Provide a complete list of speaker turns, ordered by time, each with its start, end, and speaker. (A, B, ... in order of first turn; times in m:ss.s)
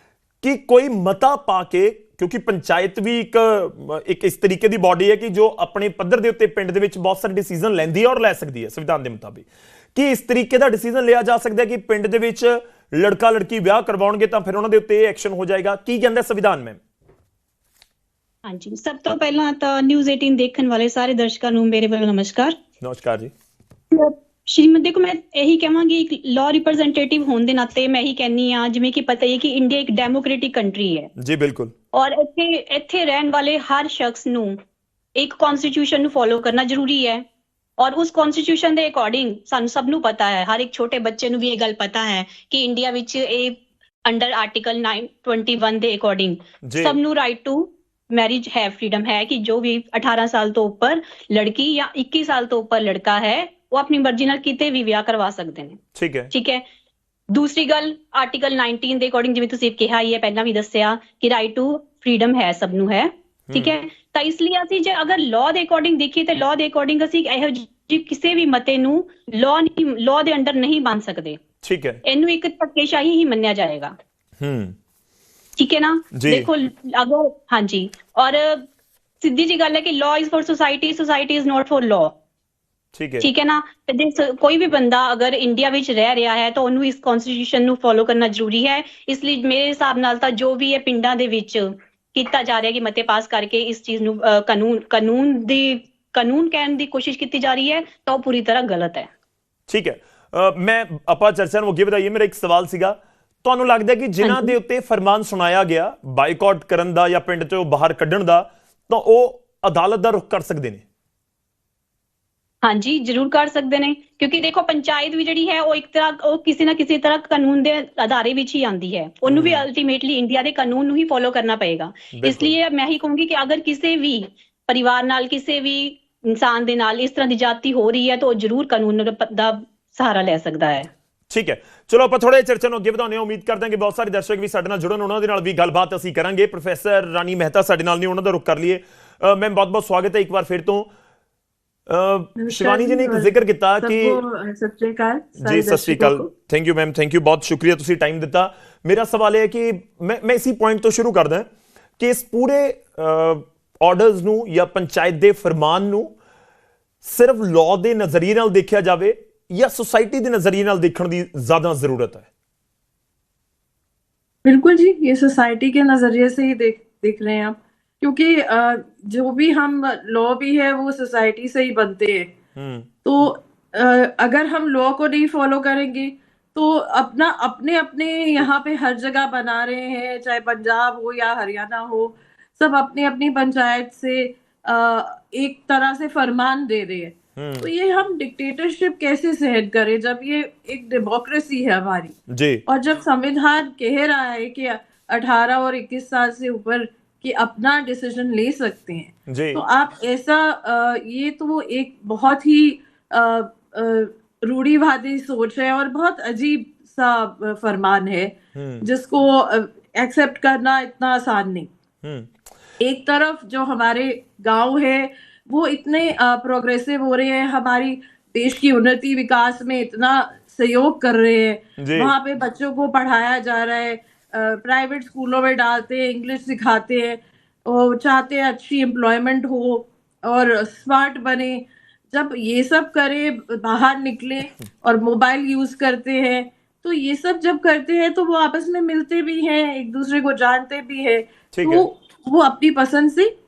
0:00.4-0:16.8 A
0:18.5-0:22.6 B
0:22.8-0:23.3 A
0:23.9-0:31.1 B
0:31.2-0:31.7 A
0:31.9-0:34.6 B
0:35.2-0:37.2 B
0:37.8-0:55.8 B
0:46.6-0:47.0 A
0:56.0-0:56.3 A
0:56.3-0:56.6 B
0:57.3-1:11.4 B
1:03.5-1:03.8 A
1:11.6-1:12.0 A
1:12.0-1:13.9 B
1:14.4-1:14.8 A
1:15.6-1:18.6 B
1:16.2-1:16.5 A
1:19.2-1:22.1 B
1:22.9-1:23.3 A
1:23.2-1:39.1 B
1:39.7-1:50.8 A
1:44.2-1:44.6 B
1:52.6-2:10.9 B
1:59.3-1:59.6 A
2:02.2-2:02.6 A
2:11.3-2:20.9 A
2:21.9-2:24.2 A
2:22.4-2:26.3 C
2:25.4-2:31.5 A
2:32.0-2:36.1 A
2:37.0-2:42.3 A
2:44.4-2:52.3 C
2:52.6-2:52.9 A
2:53.0-3:31.7 C
3:07.4-3:07.7 A
3:12.3-3:12.6 A
3:19.3-3:19.6 A
3:28.6-3:28.8 A
3:32.0-3:32.3 A
3:32.8-4:03.3 C
3:41.8-3:42.1 A
4:01.5-4:01.9 A